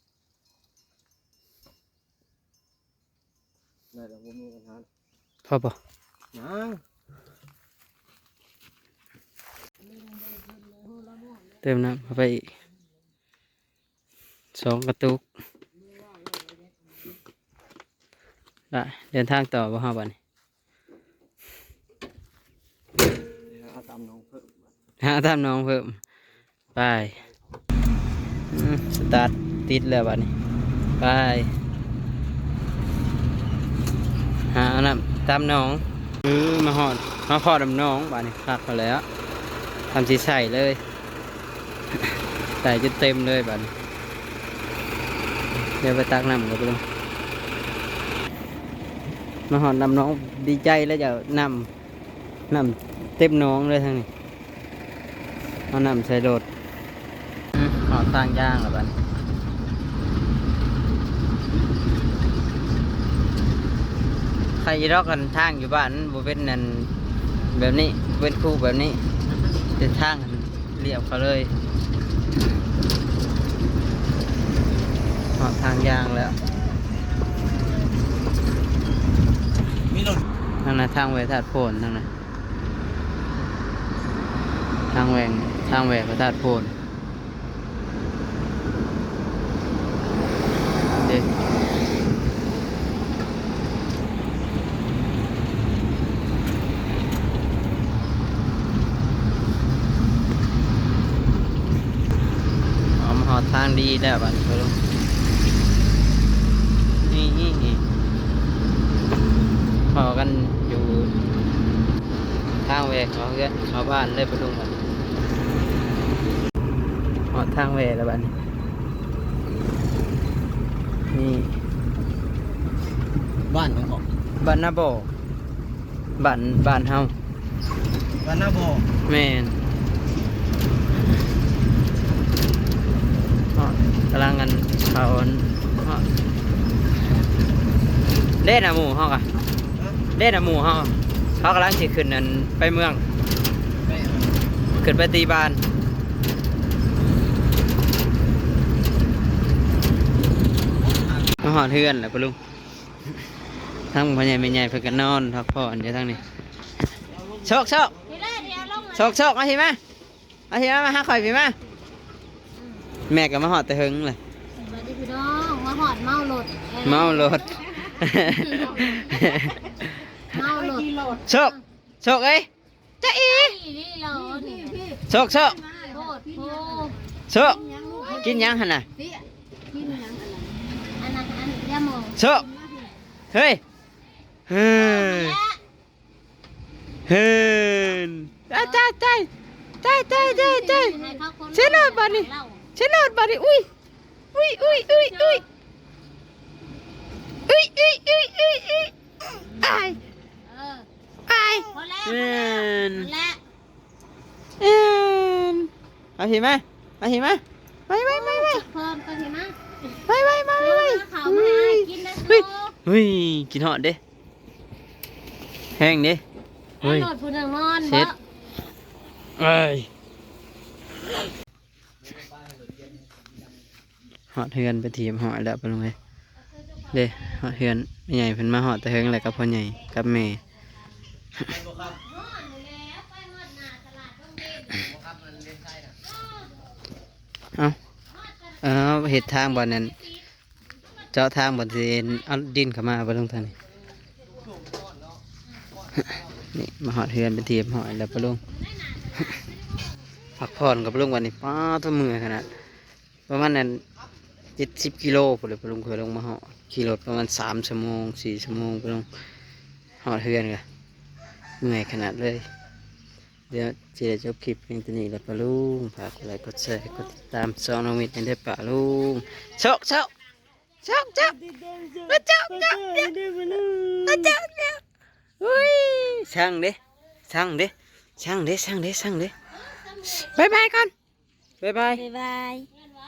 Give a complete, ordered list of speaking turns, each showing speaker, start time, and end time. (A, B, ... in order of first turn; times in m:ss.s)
0:03.9-0:04.9 A
0:05.5-0:05.8 B
0:06.3-0:06.8 A
0:11.6-0:12.5 B
0:14.5-0:15.2 B
0:18.7-0:20.2 B
0:23.5-0:24.6 A
0:25.0-0:26.0 B
0:26.8-0:27.2 B
0:28.5-0:30.3 B
0:31.0-0:31.5 B
0:34.5-0:39.0 B
0:39.9-0:40.8 B
0:42.6-0:43.7 B
0:45.8-0:46.8 B
0:49.5-0:51.7 B
0:52.5-0:54.1 B
0:55.7-0:56.4 B
0:57.6-0:58.9 B
1:04.6-1:06.9 B
1:07.5-1:09.0 B
1:09.8-1:11.5 B
1:15.4-1:16.4 B
1:20.6-1:22.1 B
1:24.9-1:26.7 B
1:31.0-1:31.3 B
1:43.0-1:44.8 B
1:47.0-1:47.8 B
1:49.9-1:51.1 B
1:52.7-1:54.8 B
1:57.3-1:58.3 B
2:01.1-2:01.5 B
2:03.5-2:04.0 A
2:04.4-2:05.1 B
2:06.2-2:07.1 B
2:08.2-2:08.8 A
2:09.1-2:09.6 B
2:13.6-2:16.0 B
2:18.4-2:19.3 B
2:20.2-2:23.0 B
2:23.9-2:24.3 A
2:24.8-2:25.6 B
2:31.4-2:32.4 B
2:33.9-2:36.2 B
2:37.4-2:38.0 B
2:38.1-2:39.2 C
2:39.0-2:39.8 B
2:40.5-2:41.6 B
2:42.6-2:42.9 C
2:43.1-2:44.2 B
2:44.6-2:47.6 C
2:46.8-2:49.9 B
2:48.6-2:49.0 C
2:50.3-2:51.6 C
2:51.2-2:52.5 B
2:53.0-2:53.6 B
2:53.2-2:55.0 C
2:55.0-2:55.7 B
2:55.7-2:57.0 C
2:57.3-2:58.9 B
2:57.6-2:58.4 C
3:00.0-3:00.4 C
3:01.0-3:02.7 C
3:02.2-3:02.5 B
3:03.3-3:03.6 B
3:04.5-3:05.4 B
3:04.7-3:05.6 C
3:07.1-3:09.3 B
3:08.5-3:08.8 C
3:09.8-3:11.0 B
3:10.1-3:12.6 C
3:11.5-3:13.7 B
3:14.4-3:15.4 B
3:14.7-3:15.4 C
3:17.5-3:20.0 B
3:20.4-3:20.9 C
3:21.3-3:23.1 B
3:21.7-3:23.4 C
3:24.6-3:28.6 B
3:28.0-3:29.6 C
3:30.1-3:34.0 B
3:30.6-3:32.8 C
3:35.8-3:36.2 B
3:36.8-3:38.1 C
3:36.8-3:37.1 B
3:37.8-3:38.1 B
3:39.4-3:39.9 B
3:44.3-3:46.0 B
3:46.9-3:50.4 B
3:51.9-3:54.9 C
3:55.3-3:55.7 A
3:58.6-4:00.0 B
4:01.1-4:03.5 B
4:06.5-4:08.4 B
4:09.0-4:09.4 C
4:10.4-4:12.5 B
4:13.3-4:13.8 B
4:14.6-4:19.1 B
4:20.0-4:20.6 B
4:21.6-4:22.5 B
4:23.5-4:30.1 B
4:30.8-4:31.4 B
4:31.5-4:32.0 A
4:32.1-4:34.8 B
4:33.1-4:33.8 A
4:35.4-4:36.8 B
4:37.3-4:39.3 B
4:40.1-4:40.9 B
4:41.6-4:42.1 B
4:42.1-4:42.7 C